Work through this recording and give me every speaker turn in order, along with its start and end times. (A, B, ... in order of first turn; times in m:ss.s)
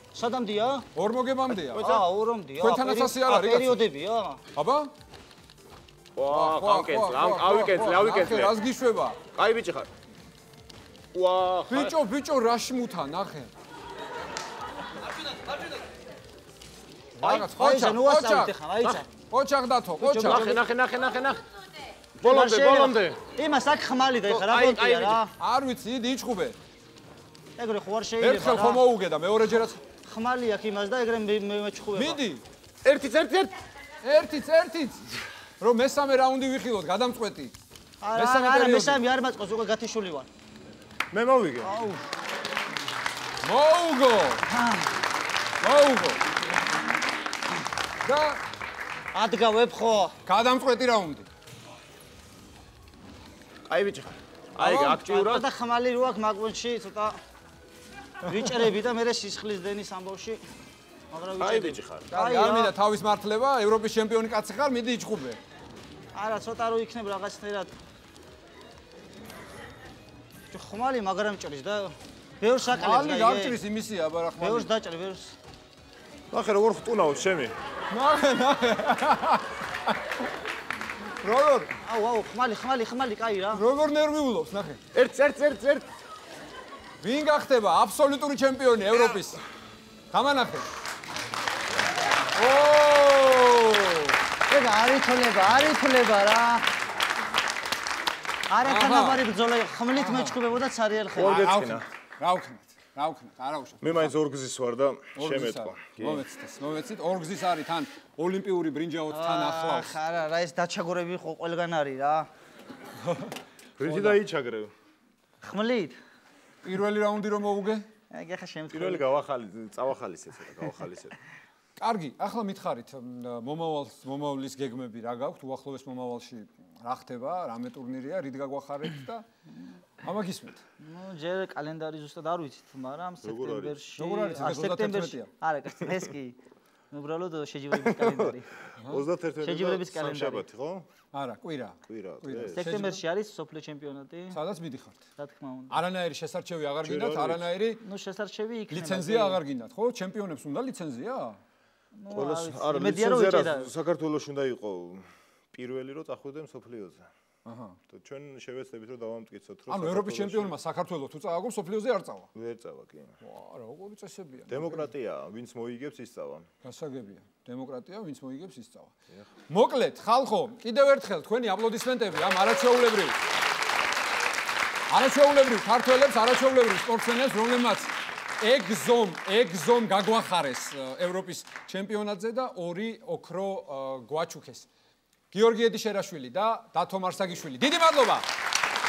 0:00.1-0:00.8 A
0:00.9-0:02.0 B
0:01.6-0:02.0 C
0:01.8-0:04.4 A
0:02.6-0:03.9 B
0:04.5-0:04.9 B
0:06.1-0:08.6 C
0:06.2-0:09.2 B
0:09.3-0:09.9 C
0:11.1-0:12.0 C
0:11.7-0:13.5 B
0:17.2-0:18.5 B
0:17.2-0:19.1 A
0:19.2-0:20.6 B
0:20.0-0:20.6 A
0:20.2-0:21.4 C
0:22.2-0:23.2 C
0:22.2-0:25.3 A
0:24.3-0:25.2 C
0:25.3-0:26.6 B
0:27.6-0:28.8 A
0:28.2-0:29.8 B
0:29.5-0:32.2 A
0:31.9-0:32.4 B
0:32.8-0:33.5 C
0:34.0-0:37.5 B
0:38.0-0:40.3 A
0:38.1-0:39.0 B
0:41.1-0:41.7 C
0:41.6-0:42.1 A
0:43.4-0:44.4 B
0:44.4-0:44.9 A
0:45.6-0:46.2 B
0:48.0-0:48.4 B
0:49.1-0:50.2 A
0:50.2-0:51.3 B
0:53.7-0:55.5 C
0:54.6-0:55.0 B
0:54.9-0:57.1 A
0:58.2-1:00.4 A
0:58.3-0:58.6 B
1:01.1-1:02.7 A
1:01.4-1:02.1 C
1:02.1-1:05.4 B
1:06.1-1:07.7 A
1:10.5-1:13.6 A
1:12.7-1:14.7 B
1:14.4-1:15.3 A
1:16.3-1:17.5 C
1:17.9-1:20.3 B
1:21.2-1:21.7 B
1:21.8-1:23.6 A
1:23.5-1:24.8 B
1:24.9-1:25.9 C
1:27.0-1:29.4 B
1:30.1-1:30.7 B
1:32.4-1:34.2 B
1:34.5-1:36.7 A
1:38.5-1:41.4 A
1:38.6-1:39.3 B
1:39.9-1:40.4 B
1:41.2-1:41.8 C
1:41.2-1:44.1 B
1:43.8-1:46.2 C
1:45.1-1:50.0 B
1:49.1-1:52.3 A
1:53.0-1:54.2 B
1:53.8-1:54.7 C
1:55.4-1:56.0 A
1:56.6-1:57.9 B
1:58.1-1:59.0 A
1:58.7-2:01.2 C
2:01.8-2:09.2 B
2:10.0-2:10.6 B
2:10.8-2:16.4 A
2:13.2-2:13.8 C
2:14.0-2:15.3 B
2:16.9-2:18.5 A
2:18.0-2:20.8 C
2:19.4-2:20.4 A
2:21.1-2:23.0 B
2:21.9-2:22.6 C
2:22.5-2:24.4 A
2:24.3-2:25.0 B
2:25.2-2:25.8 A
2:25.7-2:27.8 B
2:26.8-2:27.5 C
2:27.7-2:29.4 A
2:28.7-2:31.4 B
2:31.9-2:33.7 A
2:32.1-2:37.1 C
2:37.4-2:37.8 B
2:37.9-2:40.5 C
2:39.7-2:42.3 B
2:42.3-2:43.2 C
2:43.2-2:44.9 B
2:44.5-2:46.5 C
2:46.6-2:48.9 B
2:49.5-2:53.2 B
2:54.9-3:04.7 B
3:05.3-3:08.3 B